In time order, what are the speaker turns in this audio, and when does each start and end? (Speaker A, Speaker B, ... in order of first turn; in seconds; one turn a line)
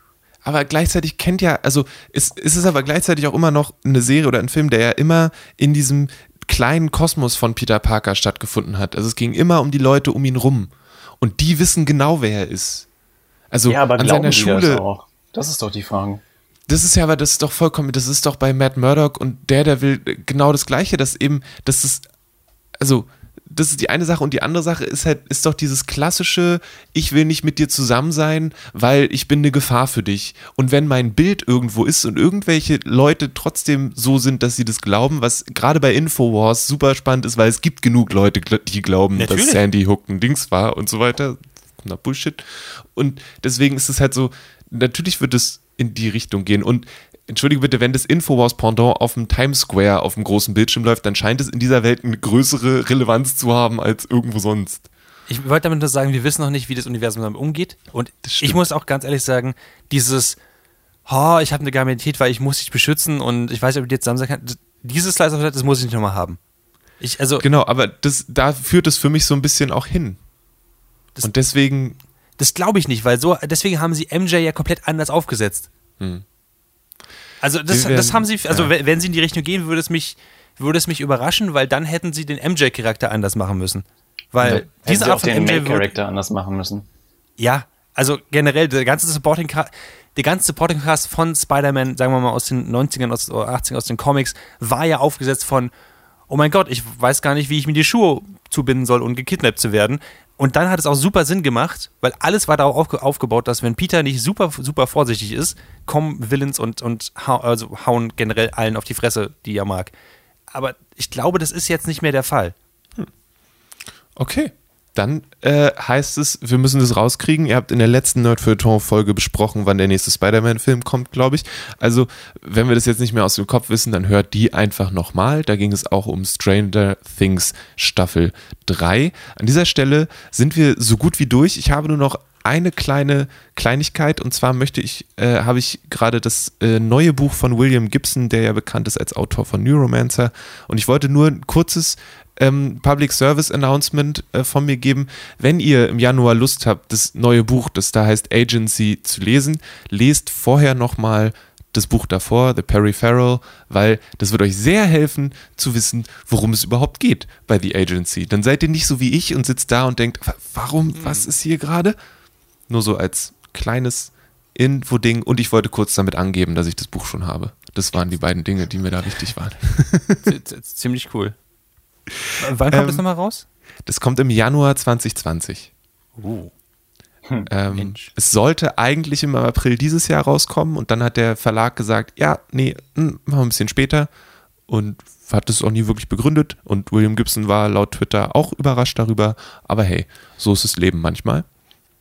Speaker A: 0.4-12.9
Speaker A: 13.5-14.8
Speaker B: 13.7-16.2
Speaker A: 16.7-22.0
Speaker A: 22.8-54.9
Speaker C: 39.2-39.6
Speaker C: 55.3-60.4
Speaker A: 58.2-58.6
Speaker C: 61.1-66.4
Speaker C: 67.0-67.5
Speaker A: 67.4-70.2
Speaker A: 71.2-72.0
Speaker C: 72.4-75.7
Speaker C: 77.4-85.9
Speaker A: 77.7-78.7
Speaker B: 84.6-86.9
Speaker C: 87.4-95.7
Speaker C: 96.3-109.9
Speaker C: 110.5-112.5
Speaker A: 114.2-162.0
Speaker C: 160.9-161.3
Speaker A: 162.7-170.3
Speaker C: 170.2-171.4
Speaker A: 172.3-173.0
Speaker C: 172.4-173.4
Speaker A: 173.9-175.7
Speaker C: 176.2-176.5
Speaker A: 177.5-184.1
Speaker C: 177.7-178.1
Speaker A: 184.7-191.4